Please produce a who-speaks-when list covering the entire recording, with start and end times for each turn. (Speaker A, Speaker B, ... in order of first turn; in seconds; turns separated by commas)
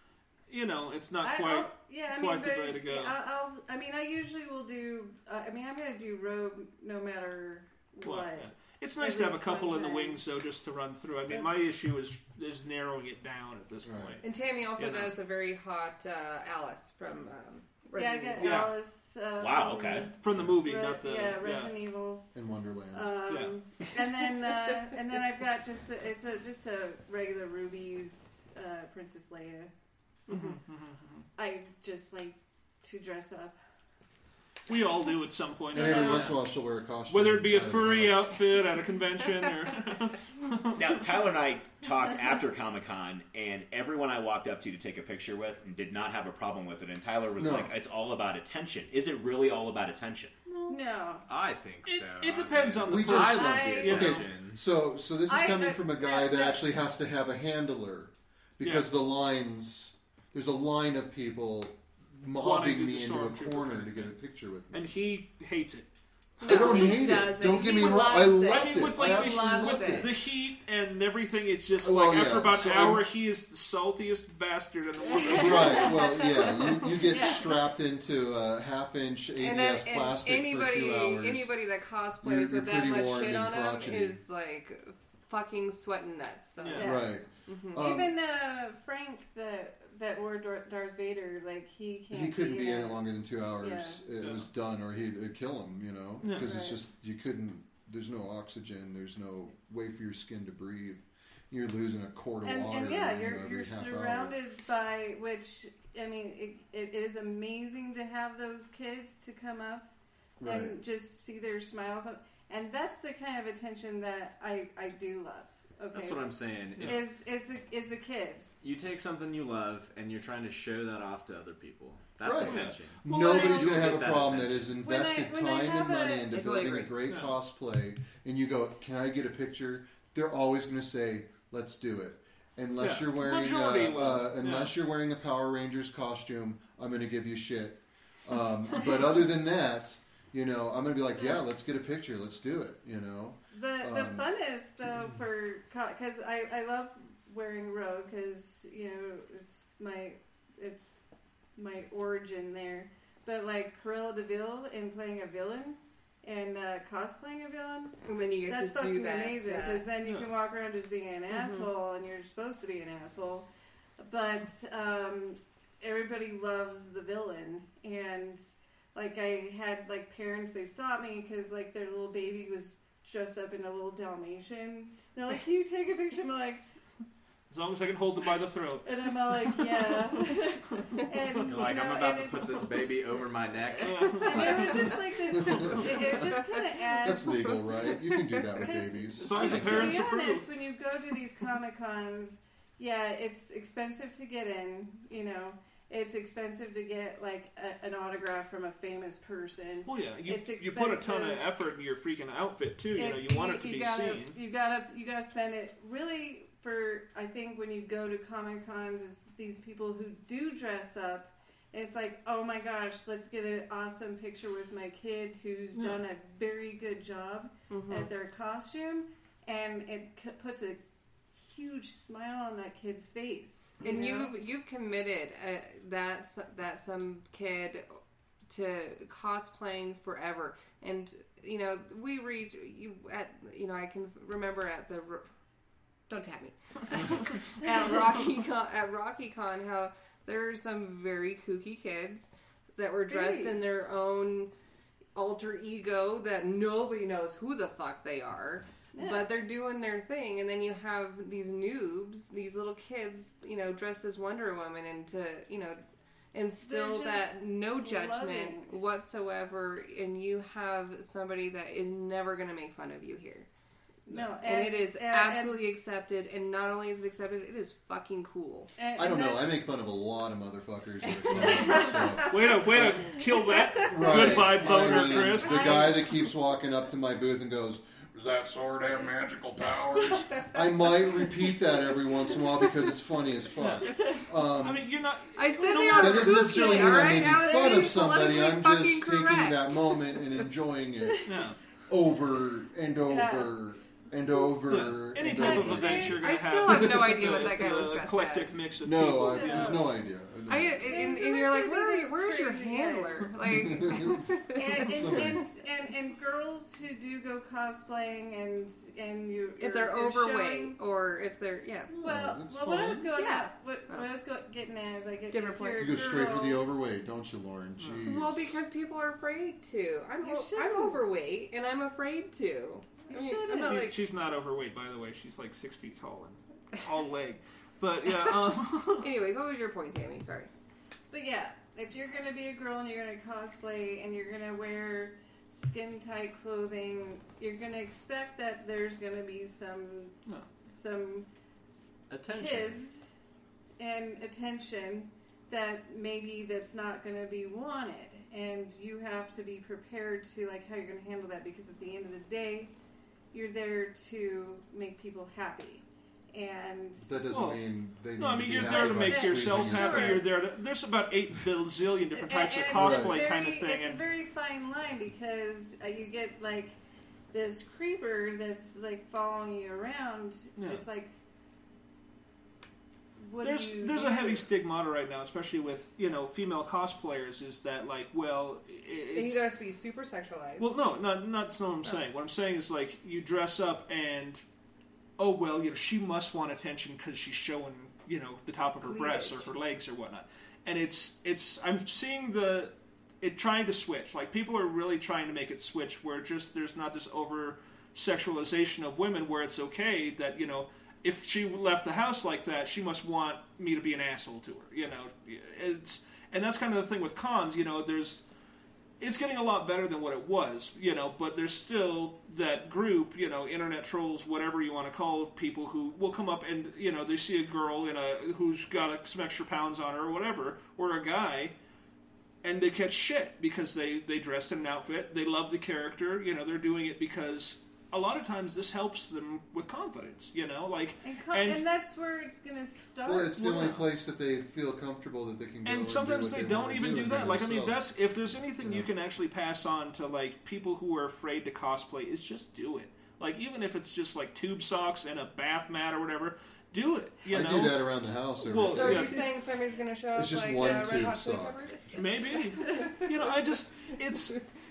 Speaker A: 0.5-3.1, Speaker B: 1.2-10.2, Speaker A: 8.0-14.2, Speaker C: 13.8-14.2, Speaker D: 14.2-18.7, Speaker A: 14.8-15.2, Speaker B: 17.9-22.3, Speaker A: 18.4-18.8, Speaker E: 19.4-20.1, Speaker A: 20.2-21.7, Speaker C: 22.3-23.3, Speaker B: 22.9-29.7, Speaker A: 23.3-23.6, Speaker A: 30.3-31.2, Speaker B: 31.4-33.6, Speaker A: 34.7-36.4, Speaker C: 35.7-38.4, Speaker B: 35.8-36.3, Speaker A: 37.1-40.9, Speaker E: 40.7-50.4, Speaker C: 47.4-47.7, Speaker B: 50.7-51.2, Speaker F: 51.3-54.6, Speaker A: 51.9-54.2, Speaker C: 52.9-64.9, Speaker B: 53.3-54.2, Speaker B: 55.3-56.7, Speaker A: 58.6-58.9, Speaker A: 62.4-64.1, Speaker A: 64.7-65.9, Speaker D: 66.4-70.1, Speaker C: 66.4-70.1, Speaker A: 67.9-76.0, Speaker C: 71.8-73.1, Speaker B: 75.1-77.6, Speaker C: 75.3-81.5, Speaker D: 79.4-87.8, Speaker C: 82.2-84.2, Speaker A: 86.6-86.9, Speaker B: 86.7-87.2, Speaker C: 86.8-88.2, Speaker B: 87.8-93.1, Speaker C: 92.1-104.4, Speaker B: 93.6-94.0, Speaker A: 94.2-94.5, Speaker A: 96.2-96.5, Speaker B: 96.4-96.8, Speaker B: 102.4-109.9, Speaker C: 110.4-110.8, Speaker B: 110.4-118.6, Speaker F: 115.9-117.1, Speaker A: 116.8-117.1, Speaker F: 118.6-124.8, Speaker C: 122.2-144.3, Speaker A: 122.4-123.8, Speaker B: 123.1-123.8, Speaker B: 124.8-126.9, Speaker D: 126.4-126.8, Speaker A: 127.1-127.3, Speaker A: 132.8-134.7, Speaker B: 143.5-151.1, Speaker B: 151.6-163.5, Speaker D: 158.0-159.9, Speaker A: 160.0-160.3, Speaker D: 161.3-161.7, Speaker B: 164.0-176.6, Speaker A: 177.5-179.0, Speaker B: 178.8-182.8, Speaker F: 181.4-185.0, Speaker A: 183.8-184.9, Speaker B: 184.0-187.4, Speaker C: 185.3-186.0, Speaker C: 187.0-189.6, Speaker B: 188.6-201.4, Speaker A: 189.2-190.5, Speaker F: 189.3-190.0, Speaker A: 199.9-204.4, Speaker B: 202.9-220.8, Speaker D: 217.7-218.1, Speaker B: 221.3-224.3, Speaker D: 223.8-227.9, Speaker D: 228.5-235.3, Speaker D: 236.1-244.5, Speaker B: 243.1-243.6, Speaker D: 245.2-255.8, Speaker B: 248.9-249.3, Speaker D: 256.3-263.5, Speaker B: 256.6-258.7, Speaker B: 264.1-265.6, Speaker D: 264.3-268.7, Speaker B: 268.8-269.6, Speaker C: 269.0-273.1, Speaker D: 271.3-272.5, Speaker A: 272.3-276.1, Speaker D: 273.1-274.4, Speaker C: 273.8-284.9, Speaker B: 274.9-276.0, Speaker D: 280.1-280.6, Speaker A: 283.6-284.1, Speaker A: 284.6-286.7, Speaker D: 285.4-290.1, Speaker C: 285.9-291.3, Speaker B: 286.5-288.2, Speaker A: 291.3-291.6, Speaker C: 291.9-297.4, Speaker B: 293.1-293.6, Speaker A: 294.7-299.9, Speaker B: 295.3-296.4, Speaker D: 295.9-298.6, Speaker C: 298.8-301.1, Speaker B: 299.1-299.9, Speaker D: 300.5-305.4, Speaker B: 300.9-303.3, Speaker C: 303.4-305.4, Speaker B: 304.5-310.8, Speaker D: 309.6-312.0, Speaker C: 311.9-313.1, Speaker B: 312.0-316.7, Speaker D: 313.1-314.1, Speaker D: 315.3-316.0, Speaker C: 315.8-318.6, Speaker A: 317.8-318.1, Speaker D: 318.1-324.0, Speaker B: 320.2-321.1, Speaker B: 323.1-323.9, Speaker A: 323.6-329.1, Speaker D: 329.0-330.5, Speaker B: 331.1-341.3, Speaker F: 342.1-342.8, Speaker B: 342.3-343.0, Speaker B: 343.8-352.7, Speaker B: 353.3-357.1, Speaker C: 357.0-360.2, Speaker A: 357.3-357.6, Speaker A: 358.2-364.0, Speaker B: 358.6-360.3, Speaker B: 362.1-366.8, Speaker C: 362.7-363.2, Speaker B: 367.3-371.1, Speaker A: 370.6-370.8, Speaker B: 373.2-374.5, Speaker A: 373.4-379.4, Speaker D: 379.1-380.7, Speaker A: 380.6-384.4, Speaker A: 385.2-408.2, Speaker D: 388.8-389.4, Speaker A: 409.0-421.5, Speaker A: 422.4-431.6, Speaker B: 431.0-433.9, Speaker C: 433.1-437.9, Speaker A: 435.6-447.9, Speaker C: 438.6-438.9, Speaker C: 447.3-449.2, Speaker A: 448.4-449.3, Speaker D: 448.7-453.1, Speaker C: 450.1-451.8, Speaker A: 451.9-454.4